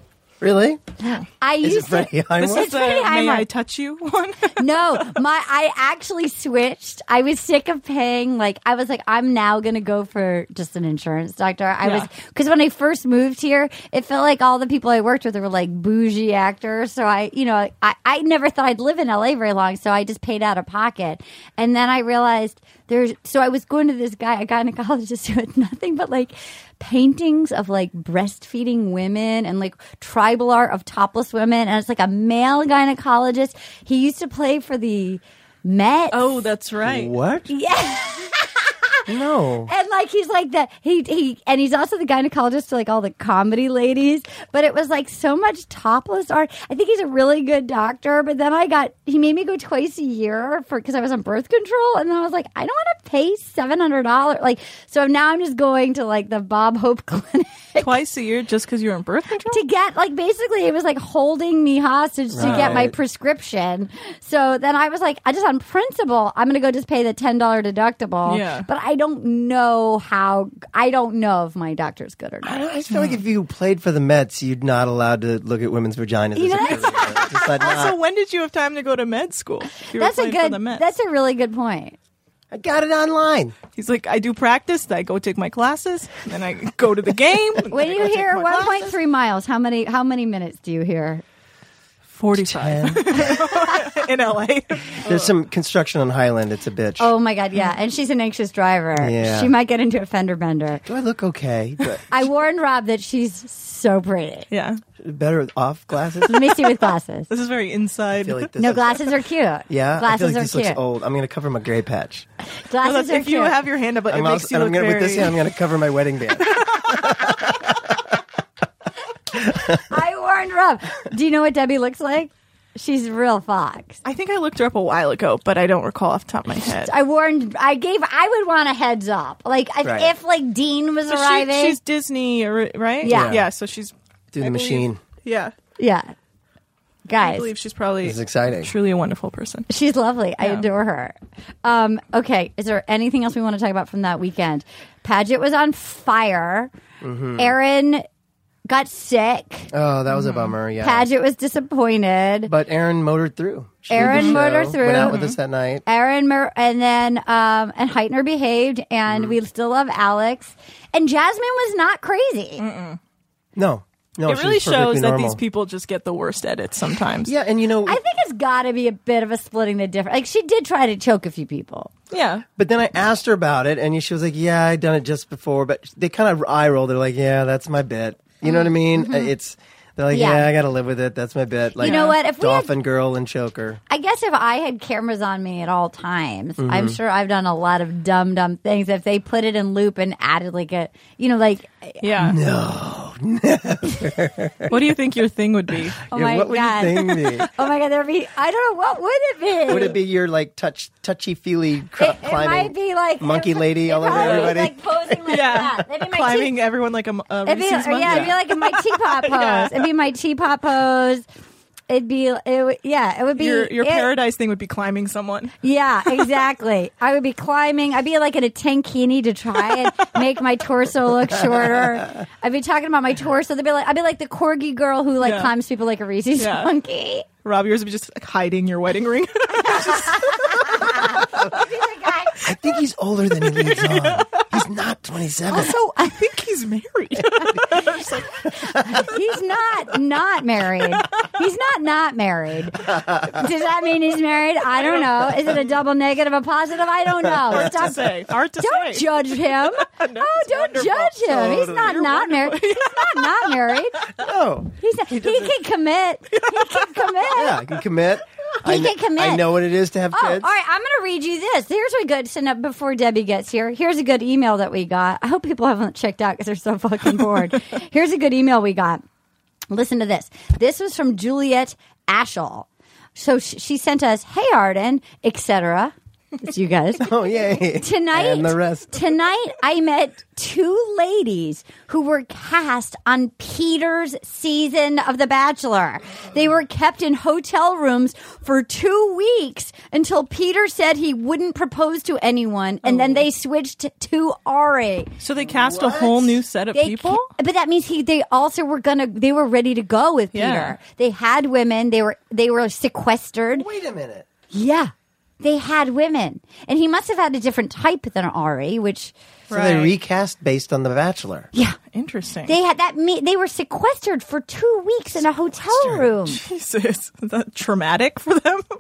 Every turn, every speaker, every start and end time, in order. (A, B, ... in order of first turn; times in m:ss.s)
0:00.4-0:00.8 A
0:01.0-0:03.5 B
0:01.6-0:02.7 A
0:02.4-0:05.0 C
0:04.6-0:36.5 B
0:11.8-0:12.1 C
0:36.1-0:37.1 C
0:36.8-0:37.5 A
0:37.5-0:38.8 B
0:39.1-0:39.7 A
0:39.7-0:57.9 B
0:57.8-0:59.6 C
0:59.5-1:12.7 B
1:02.3-1:02.9 A
1:02.4-1:02.8 C
1:08.2-1:08.7 C
1:12.4-1:18.0 A
1:12.9-1:13.2 C
1:16.3-1:17.6 B
1:16.6-1:20.8 C
1:19.9-1:22.0 B
1:22.5-1:23.6 A
1:23.7-1:29.0 C
1:27.7-1:31.2 B
1:32.1-1:35.3 C
1:32.3-1:33.4 A
1:33.3-1:33.9 B
1:35.0-1:37.1 A
1:37.0-1:40.8 B
1:39.0-1:39.5 A
1:40.8-1:42.1 A
1:42.1-1:44.5 B
1:44.5-1:44.8 C
1:45.0-1:46.5 A
1:46.3-1:47.3 B
1:47.3-1:48.5 C
1:48.2-1:49.0 A
1:48.6-1:50.8 B
1:49.7-1:52.2 A
1:52.7-1:53.6 B
1:52.8-1:55.4 C
1:54.1-1:58.0 A
1:59.7-2:04.0 B
2:04.0-2:06.9 C
2:06.8-2:11.8 B
2:09.8-2:10.1 A
2:11.0-2:15.5 C
2:13.0-2:13.4 B
2:13.0-2:13.5 A
2:14.3-2:15.0 A
2:15.8-2:16.1 B
2:17.0-2:17.5 B
2:17.2-2:19.6 C
2:18.0-2:18.7 A
2:19.7-2:26.7 B
2:20.4-2:20.7 C
2:27.0-2:27.6 A
2:27.4-2:28.0 B
2:28.7-2:29.7 B
2:29.7-2:31.1 A
2:30.1-2:30.5 C
2:30.8-2:32.5 B
2:32.5-2:35.8 A
2:33.9-2:35.3 B
2:33.9-2:35.4 C
2:35.8-2:42.6 B
2:39.1-2:39.4 A
2:42.6-2:43.0 C
2:43.6-2:45.4 A
2:44.2-2:47.3 C
2:47.2-2:48.0 A
2:47.8-2:51.9 B
2:52.1-2:52.4 C
2:52.6-3:03.8 A
2:58.4-2:59.3 B
3:00.1-3:00.5 B
3:01.8-3:02.2 C
3:01.8-3:02.7 B
3:03.9-3:12.0 B
3:06.6-3:07.0 A
3:12.0-3:12.4 C
3:12.2-3:14.8 A
3:14.7-3:16.0 C
3:16.1-3:20.0 B
3:16.1-3:17.5 A
3:19.7-3:25.4 A
3:22.0-3:26.5 B
3:24.0-3:24.6 C
3:25.3-3:29.8 C
3:27.4-3:31.2 B
3:28.0-3:28.3 A
3:31.9-3:34.1 B
3:33.4-3:35.5 C
3:35.6-3:47.2 B
3:45.2-3:45.5 C
3:46.4-3:46.7 C
3:47.4-3:50.9 C
3:49.6-3:52.4 B
3:52.4-3:55.8 A
3:53.6-3:54.4 C
3:55.5-3:58.5 C
3:58.5-4:14.0 B
4:07.4-4:07.9 A
4:07.5-4:13.8 C
4:11.2-4:12.0 A
4:14.2-4:15.5 A
4:14.8-4:17.6 B
4:16.4-4:17.2 C
4:17.3-4:20.5 A
4:18.6-4:19.6 B
4:20.1-4:29.0 B
4:29.7-4:55.1 B
4:37.0-4:39.1 A
4:52.8-4:53.2 C
4:55.2-4:57.3 C
4:55.4-4:56.4 A
4:56.7-5:03.6 B
5:00.3-5:00.8 C
5:03.5-5:04.2 A
5:04.5-5:09.1 B
5:09.5-5:09.9 C
5:09.5-5:11.5 A
5:11.9-5:12.6 C
5:12.4-5:16.4 B
5:16.2-5:18.6 C